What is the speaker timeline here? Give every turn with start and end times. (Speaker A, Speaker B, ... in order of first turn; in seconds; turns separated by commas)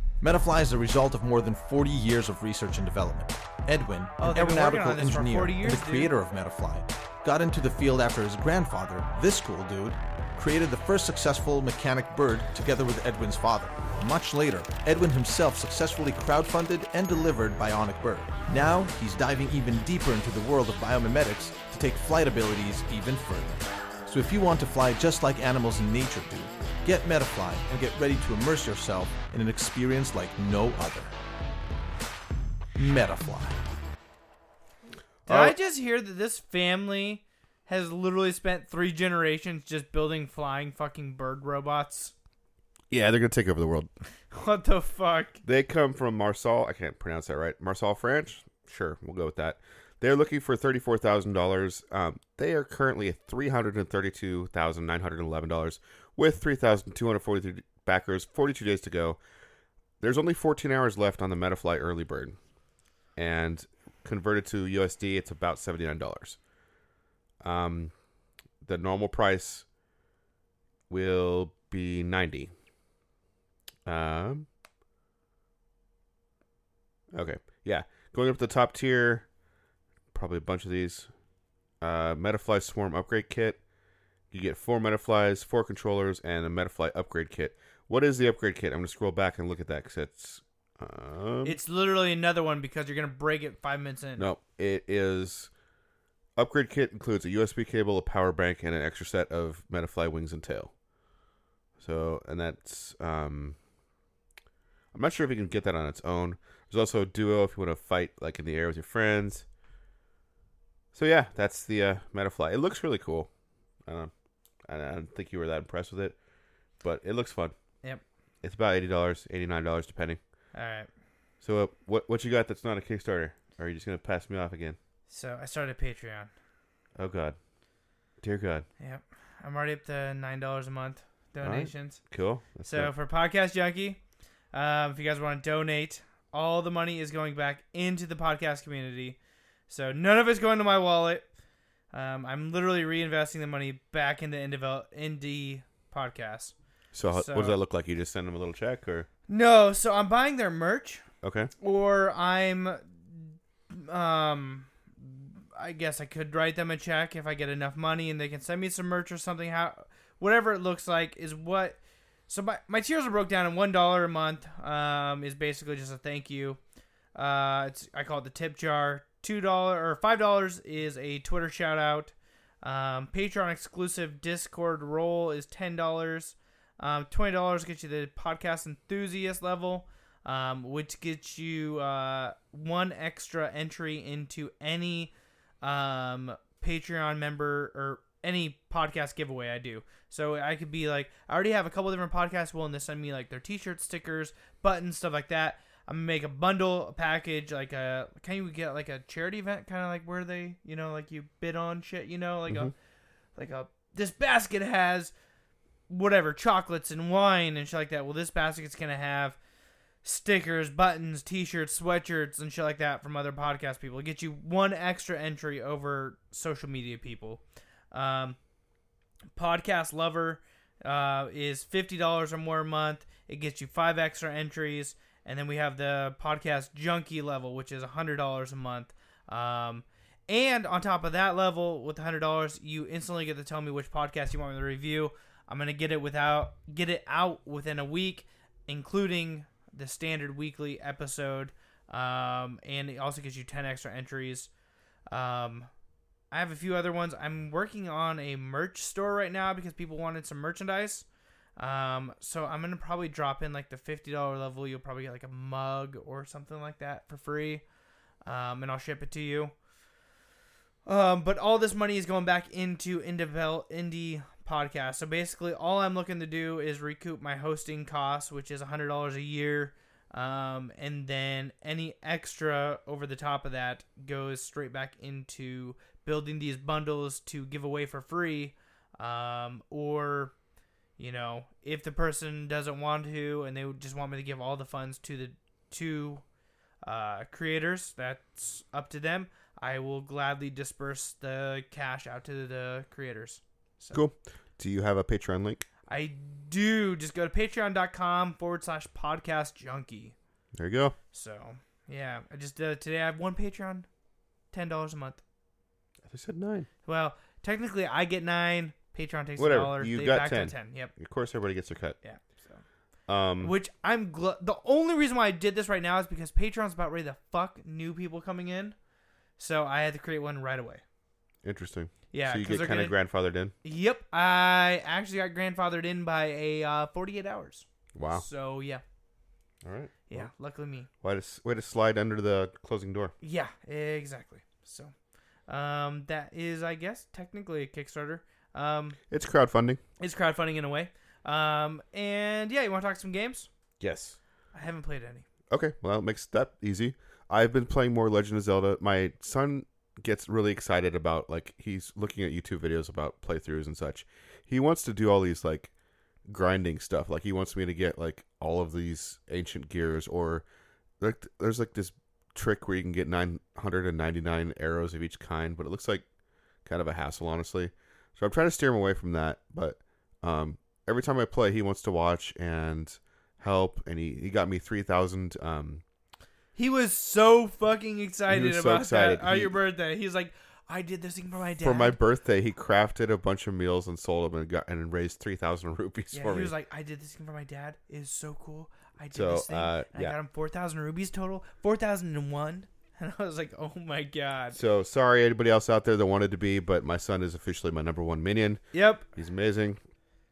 Speaker A: 0.2-31.1, Speaker B: 4.2-6.1, Speaker A: 32.8-33.6, Speaker B: 35.2-42.1, Speaker C: 35.3-35.5, Speaker C: 42.9-43.9, Speaker B: 44.3-45.4, Speaker C: 45.4-59.2, Speaker C: 60.0-62.4, Speaker C: 63.1-66.4, Speaker C: 67.4-67.9, Speaker C: 68.6-69.7, Speaker C: 70.9-72.5, Speaker C: 73.8-74.5, Speaker C: 77.1-79.3, Speaker C: 80.1-81.1, Speaker C: 81.8-83.6, Speaker C: 84.3-91.6, Speaker B: 91.4-94.3, Speaker C: 94.2-95.5, Speaker C: 96.3-100.7, Speaker C: 101.8-103.6, Speaker C: 104.9-109.5, Speaker C: 110.9-113.3, Speaker C: 113.8-114.1, Speaker C: 114.7-116.2, Speaker C: 116.8-117.5, Speaker C: 118.4-120.2, Speaker B: 120.5-120.9, Speaker C: 121.4-124.8, Speaker B: 125.1-126.3, Speaker C: 127.0-127.4, Speaker C: 128.2-128.7, Speaker B: 128.8-132.0, Speaker C: 131.4-132.9, Speaker B: 132.6-134.0, Speaker B: 134.5-139.2, Speaker B: 139.7-141.2, Speaker B: 141.9-146.5, Speaker C: 146.9-149.1, Speaker B: 147.1-147.6, Speaker B: 149.3-151.0, Speaker C: 151.2-151.5, Speaker B: 151.6-166.6, Speaker B: 167.1-185.1, Speaker B: 185.6-202.7, Speaker C: 202.5-202.7, Speaker B: 203.4-205.1, Speaker B: 205.9-209.4, Speaker B: 210.0-218.4, Speaker B: 219.3-244.5, Speaker B: 245.1-245.7, Speaker B: 246.3-251.0, Speaker B: 251.6-257.6, Speaker B: 258.2-259.5, Speaker B: 260.9-280.3, Speaker B: 281.0-286.2, Speaker B: 286.8-294.0, Speaker C: 293.9-295.6, Speaker B: 295.9-300.1, Speaker C: 300.5-300.9, Speaker B: 301.1-303.9, Speaker B: 304.5-305.2, Speaker C: 306.0-306.7, Speaker B: 306.8-310.9, Speaker C: 309.4-312.0, Speaker B: 312.0-312.6, Speaker C: 313.1-313.5, Speaker B: 313.4-318.8, Speaker B: 319.4-320.8, Speaker C: 321.4-323.5, Speaker B: 322.1-322.9, Speaker B: 323.6-328.8, Speaker C: 327.9-328.2, Speaker C: 329.6-330.3, Speaker B: 330.1-330.9, Speaker C: 331.0-333.1, Speaker B: 333.2-334.9, Speaker B: 335.5-339.0, Speaker C: 339.1-339.8, Speaker B: 340.0-343.5, Speaker C: 343.8-344.2, Speaker B: 344.5-345.2, Speaker C: 345.5-355.7, Speaker C: 356.3-360.4, Speaker C: 361.0-366.0, Speaker C: 366.6-375.8, Speaker B: 376.6-382.0, Speaker C: 378.3-379.6, Speaker C: 381.6-386.5, Speaker B: 386.1-394.6, Speaker C: 389.1-390.1, Speaker C: 394.5-399.8, Speaker B: 398.7-399.0